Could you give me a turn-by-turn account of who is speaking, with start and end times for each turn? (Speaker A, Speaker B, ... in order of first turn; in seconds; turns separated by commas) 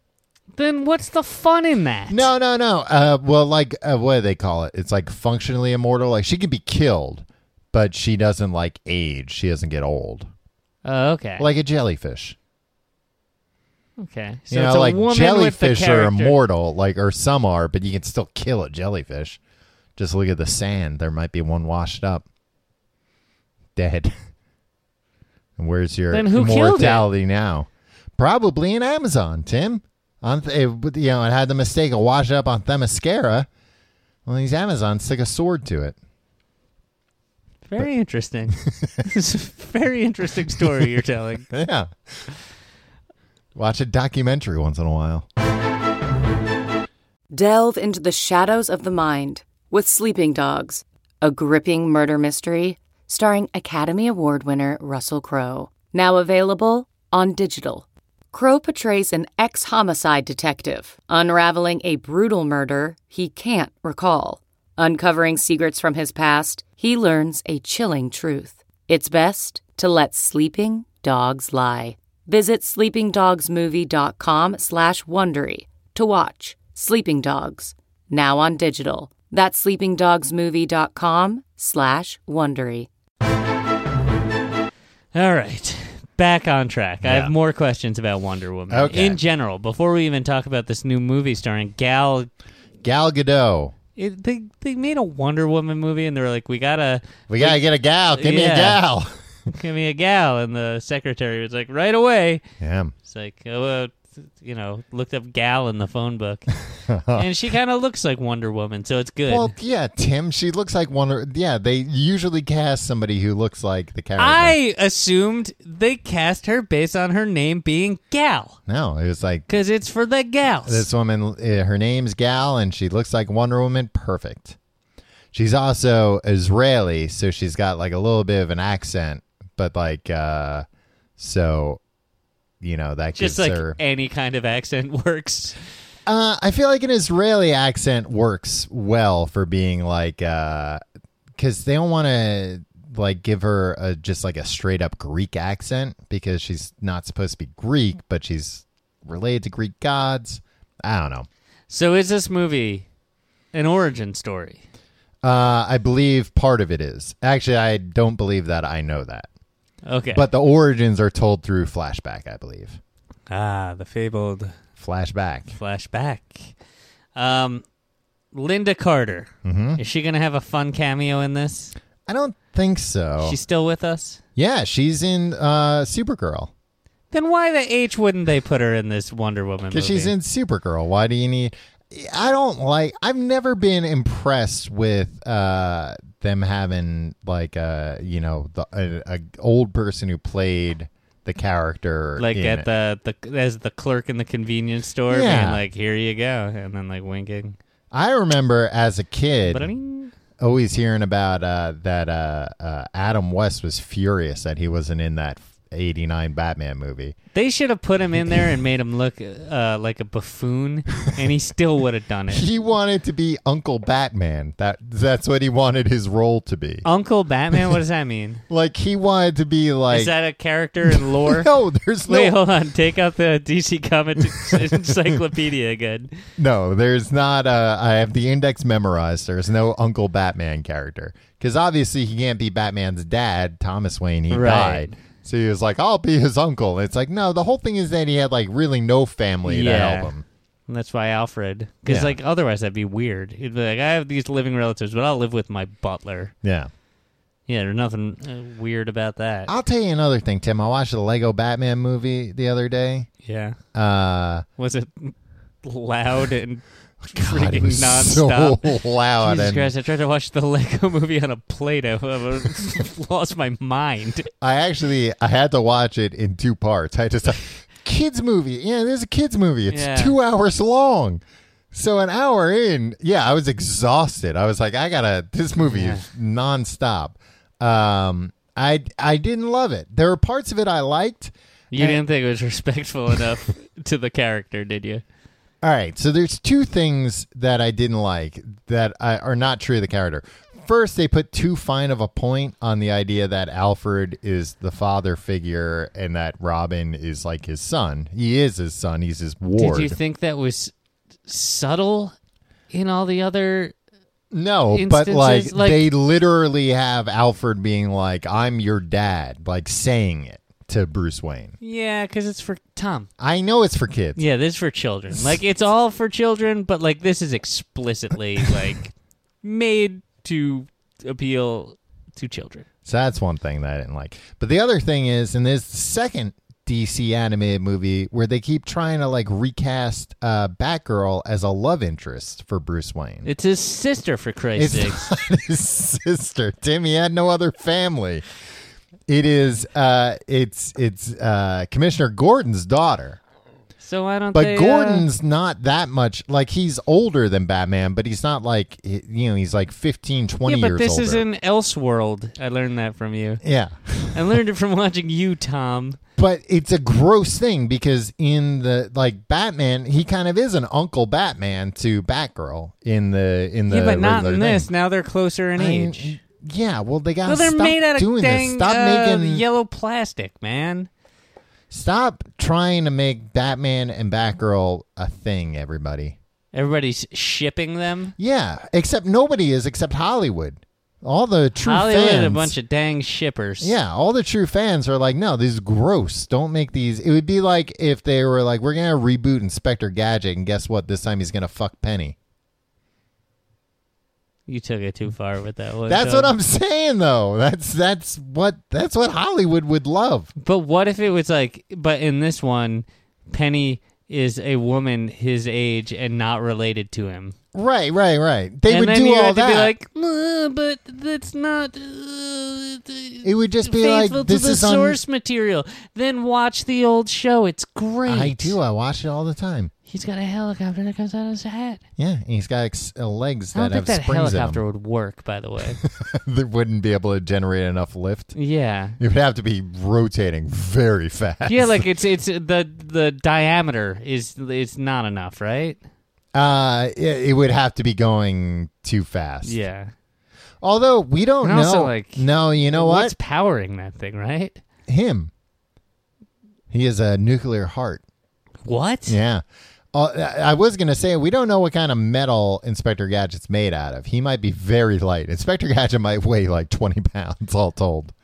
Speaker A: 0.5-2.3, Speaker B: 2.1-10.3, Speaker A: 10.8-11.5, Speaker B: 11.4-12.3, Speaker A: 14.0-16.4, Speaker B: 14.5-19.4, Speaker B: 19.9-22.2, Speaker B: 23.8-24.1, Speaker B: 25.6-33.5, Speaker A: 26.1-27.1, Speaker B: 34.2-36.0, Speaker A: 37.6-41.5, Speaker B: 38.6-39.0, Speaker B: 41.5-42.3, Speaker B: 43.5-45.3, Speaker C: 47.3-82.9, Speaker A: 85.1-92.3, Speaker B: 87.0-87.3, Speaker B: 88.7-89.2, Speaker B: 92.8-93.7, Speaker A: 94.0-98.8, Speaker B: 97.3-99.1, Speaker A: 99.5-102.4, Speaker B: 102.6-102.9, Speaker A: 103.0-106.5, Speaker B: 106.9-107.3, Speaker A: 107.1-109.5, Speaker B: 109.3-114.5, Speaker A: 114.2-118.6, Speaker B: 118.7-119.5, Speaker A: 119.5-120.9, Speaker B: 120.6-124.6, Speaker B: 125.3-130.7, Speaker B: 131.2-131.8, Speaker B: 132.6-133.8, Speaker A: 133.2-135.5, Speaker B: 136.1-140.8, Speaker B: 141.4-151.3, Speaker A: 151.7-152.8, Speaker A: 153.5-154.6, Speaker B: 155.2-159.3, Speaker A: 159.8-160.3, Speaker B: 160.1-162.8, Speaker A: 163.3-164.5, Speaker B: 164.8-165.5, Speaker A: 165.5-166.5, Speaker A: 167.2-167.6, Speaker A: 168.3-171.7, Speaker B: 169.4-169.8, Speaker B: 172.1-173.4, Speaker A: 173.2-174.2, Speaker B: 174.3-176.5, Speaker A: 177.1-180.1, Speaker B: 179.7-192.7, Speaker A: 192.2-197.6, Speaker B: 195.1-195.6, Speaker B: 197.9-199.7, Speaker A: 199.5-200.1, Speaker B: 200.4-207.2, Speaker A: 207.3-212.4, Speaker B: 212.3-216.8, Speaker A: 216.8-218.4, Speaker B: 218.5-220.1, Speaker A: 219.9-221.5, Speaker B: 220.8-222.3, Speaker A: 222.1-226.1, Speaker B: 224.3-224.9, Speaker B: 226.4-240.2, Speaker A: 234.3-235.0, Speaker A: 239.4-240.1, Speaker A: 240.7-246.3, Speaker B: 241.9-242.2, Speaker B: 246.4-246.7, Speaker A: 247.5-249.5, Speaker B: 249.5-253.1, Speaker A: 253.2-253.6, Speaker B: 253.7-254.4, Speaker A: 254.6-258.6, Speaker B: 257.0-259.7, Speaker A: 259.2-264.3, Speaker B: 264.4-282.0, Speaker A: 269.7-270.1, Speaker A: 275.6-276.1, Speaker A: 281.7-285.0, Speaker B: 285.6-300.0, Speaker A: 299.6-300.7, Speaker A: 301.2-302.1, Speaker A: 302.7-303.7, Speaker B: 304.3-311.6, Speaker A: 304.7-305.8, Speaker A: 311.6-313.1, Speaker B: 313.2-314.2, Speaker A: 314.1-322.6, Speaker B: 315.1-315.4, Speaker B: 322.8-333.3, Speaker A: 333.2-335.1, Speaker B: 334.6-338.2, Speaker B: 339.1-343.2, Speaker A: 343.8-345.1, Speaker B: 344.3-351.2, Speaker A: 350.4-353.4, Speaker B: 353.4-354.2, Speaker A: 354.1-356.0, Speaker B: 356.2-364.7, Speaker A: 363.7-366.2, Speaker B: 365.6-369.4, Speaker A: 367.2-370.9, Speaker B: 371.7-376.2, Speaker A: 376.5-378.1, Speaker B: 378.2-382.5, Speaker A: 381.6-383.7, Speaker B: 383.6-392.1, Speaker A: 394.5-396.3, Speaker B: 395.9-400.3, Speaker A: 400.4-407.4, Speaker B: 407.5-409.7, Speaker A: 408.7-418.6, Speaker B: 413.2-415.0, Speaker B: 418.1-419.7, Speaker A: 419.9-421.8, Speaker B: 422.0-424.6, Speaker A: 423.5-425.8, Speaker B: 425.8-428.3, Speaker A: 428.3-429.0, Speaker B: 429.0-431.8, Speaker A: 431.4-435.8, Speaker B: 436.3-439.6, Speaker A: 439.4-439.9, Speaker B: 440.6-443.1, Speaker A: 441.4-444.6, Speaker B: 444.9-445.3, Speaker B: 446.7-448.0, Speaker A: 448.6-449.2, Speaker B: 449.1-458.1